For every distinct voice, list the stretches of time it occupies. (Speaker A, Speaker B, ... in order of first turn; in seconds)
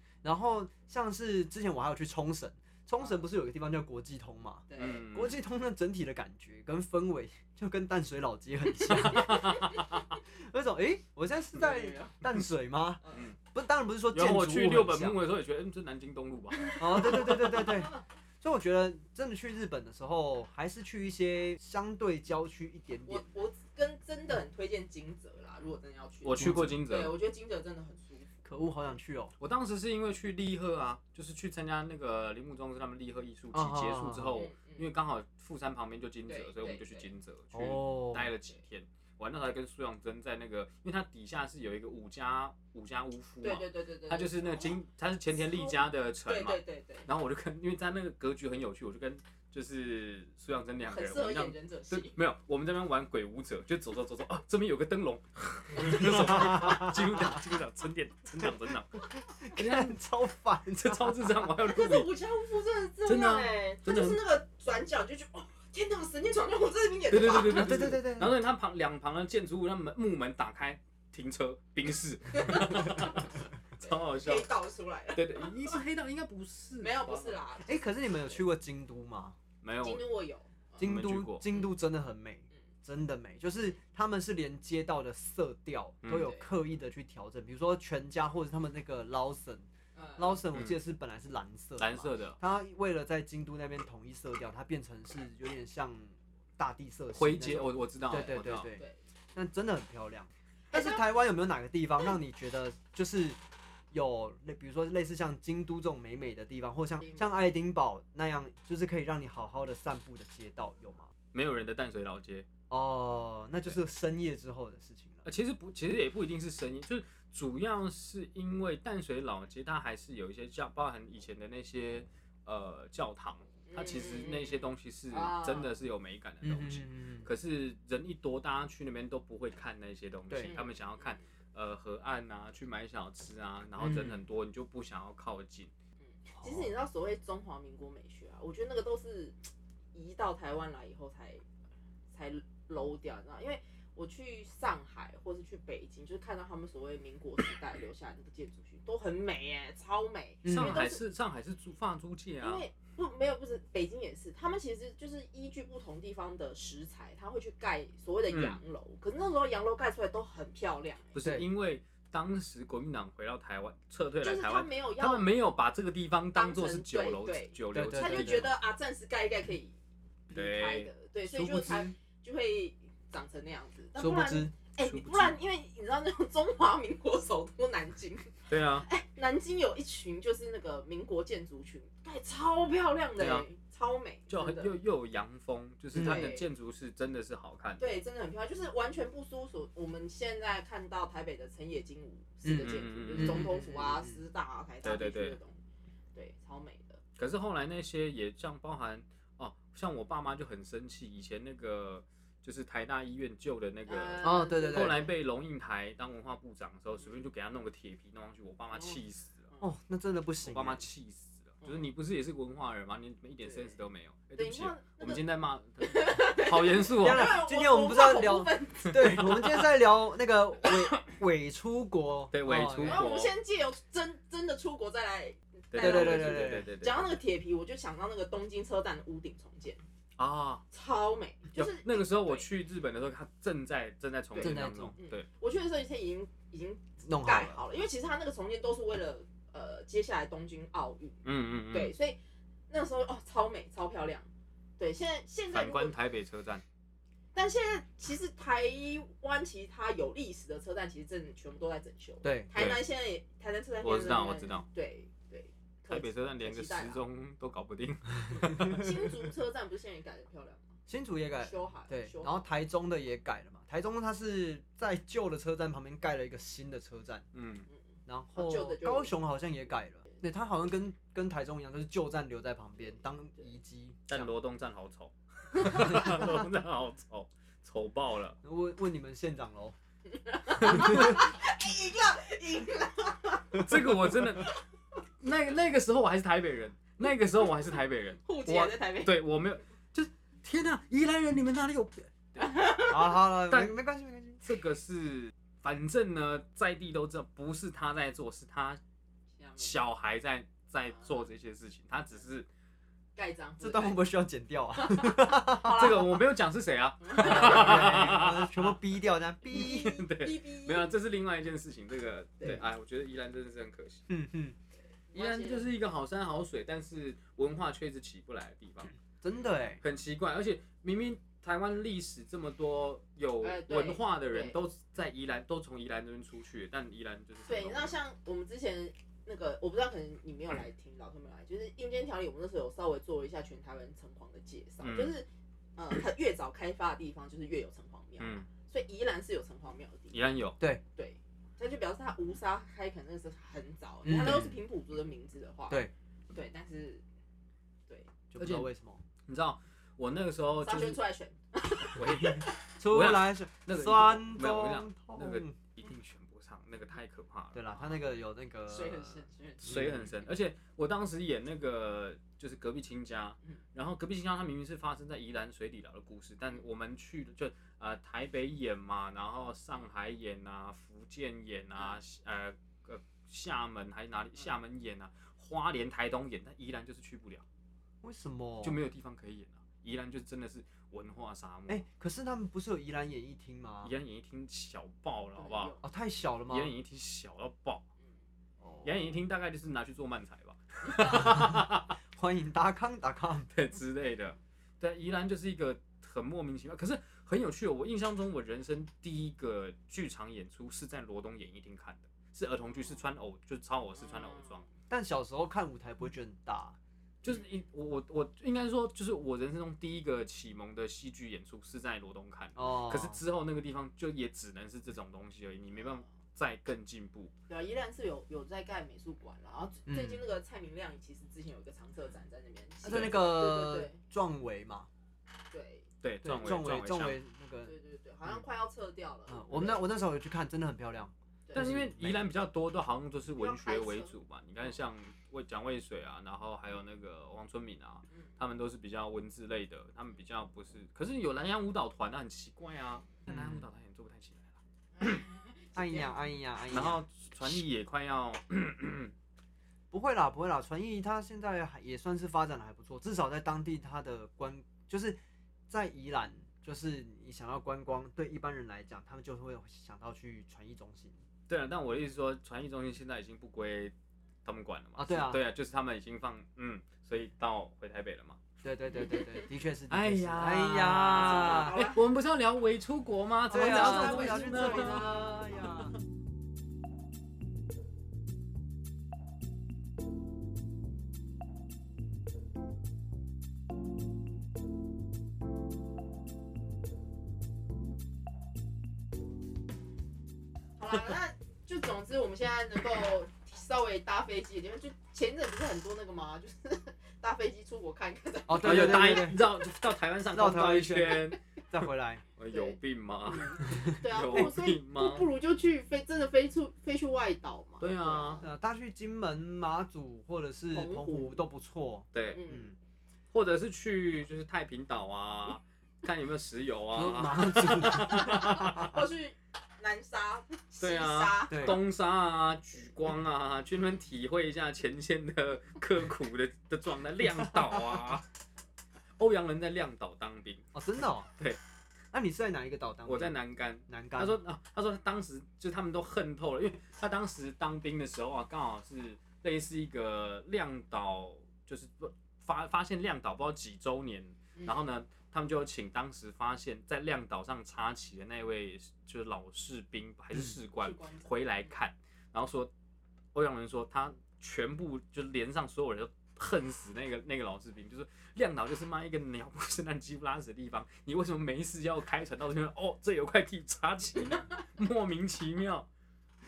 Speaker A: 0.2-9.6, 10.2-15.2, 16.8-23.2, 26.4-26.8, 28.4-29.3, 33.5-34.4, 37.5-38.3, 56.0-57.3, 59.4-61.3, 67.5-68.4, 77.6-79.3, 80.8-89.7, 90.2-98.8, 99.3-103.4, 103.9-111.1, 112.7-115.2, 126.4-127.3, 133.8-134.2, 150.4-150.8, 167.7-168.5, 171.3-171.9, 173.9-174.5, 185.9-186.3, 192.4-194.2, 204.2-205.1, 209.6-210.8, 217.0-223.1, 225.8-226.7, 234.4-234.9, 237.0-237.6, 252.2-252.5, 258.4-258.8, 260.9-267.2, 268.1-274.3, 275.8-276.4, 278.4-279.8, 280.7-281.1, 292.9-294.4, 303.6-305.9, 307.2-310.0, 314.1-314.6, 319.2-319.8, 344.0-344.6, 348.3-349.0, 352.8-355.5, 357.5-360.1, 378.0-378.8, 381.7-383.9, 385.8-386.7, 388.6-388.9, 391.1-393.5, 404.9-406.8, 412.6-413.2, 419.9-420.2, 422.8-424.9, 426.2-427.7, 429.3-432.2, 443.3-443.6, 445.7-447.0, 449.9-455.2, 455.7-461.1, 465.0-465.4, 468.6-471.8, 473.5-475.9, 498.5-499.4, 500.3-502.2, 503.6-504.5, 508.4-512.7, 516.9-519.0, 521.5-521.8, 530.7-531.3, 532.1-534.4
Speaker B: 4.7-5.0, 8.8-9.8, 11.5-12.2, 16.6-17.9, 23.1-28.3, 34.3-34.9, 36.3-37.1, 43.4-44.8, 45.3-47.1, 50.9-52.1, 61.6-68.0, 72.3-75.8, 76.8-78.4, 79.8-80.8, 86.1-86.5, 90.0-90.4, 100.7-101.0, 107.0-107.3, 123.7-125.8, 130.4-131.2, 136.3-141.4, 142.1-151.0, 152.4-161.2, 164.2-165.3, 166.3-169.8, 170.3-184.7, 186.0-186.5, 187.8-195.6, 196.1-197.0, 203.9-205.1, 213.4-213.8, 214.4-215.2, 215.8-219.3, 222.8-229.8, 230.7-232.5, 234.3-242.2, 242.7-245.9, 247.3-257.0, 258.5-260.7, 261.4-262.4, 268.3-269.1, 280.1-283.7, 288.2-289.1, 292.4-293.1, 299.4-299.8, 303.1-304.0, 304.8-306.2, 307.0-308.1, 309.5-310.9, 315.1-315.7, 323.4-324.6, 327.5-340.1, 340.9-347.0, 350.6-352.5, 358.7-359.8, 385.4-385.8, 404.0-404.6, 417.5-424.0, 425.5-425.9, 427.6-429.9, 433.4-434.1, 444.9-446.1, 469.0-469.4, 471.1-472.0, 473.5-475.4, 490.8-499.4, 502.5-508.4, 510.7-511.4, 512.3-512.7, 518.2-521.8, 550.8-551.5
Speaker C: 4.8-5.4, 8.9-10.0, 14.1-17.3, 26.2-27.1, 29.4-60.0, 60.8-62.1, 63.0-64.2, 67.1-74.5, 75.1-77.4, 79.6-80.0, 80.8-81.4, 86.0-86.3, 91.8-92.4, 97.1-98.7, 111.3-112.5, 115.2-135.7, 150.5-152.6, 158.3-158.6, 161.1-168.5, 170.3-170.9, 174.8-175.3, 178.5-178.9, 183.2-183.4, 184.3-187.9, 192.6-193.6, 194.8-195.4, 197.2-209.5, 210.4-217.4, 218.9-219.4, 222.3-223.3, 225.7-227.1, 230.2-230.6, 231.5-235.2, 241.2-241.9, 245.5-246.6, 252.5-252.8, 253.8-254.7, 255.9-259.1, 267.3-267.7, 274.1-278.4, 280.6-281.1, 283.5-284.5, 285.2-292.6, 293.5-293.7, 294.4-298.8, 299.6-302.5, 305.7-308.8, 309.5-314.1, 315.1-318.9, 319.8-328.0, 334.8-335.1, 338.2-338.5, 340.1-340.6, 348.4-348.7, 349.3-351.0, 351.9-358.0, 359.6-377.4, 378.6-381.8, 383.8-385.7, 386.5-387.8, 388.8-391.9, 393.5-404.6, 407.2-417.3, 422.9-423.2, 426.0-427.2, 431.5-445.2, 446.7-449.1, 461.5-463.9, 464.4-468.4, 469.9-475.1, 498.6-501.4, 502.4-505.2, 507.8-508.4, 512.1-512.4, 513.3-518.9, 520.8-528.2, 529.2-530.6, 533.0-552.7, 553.3-565.9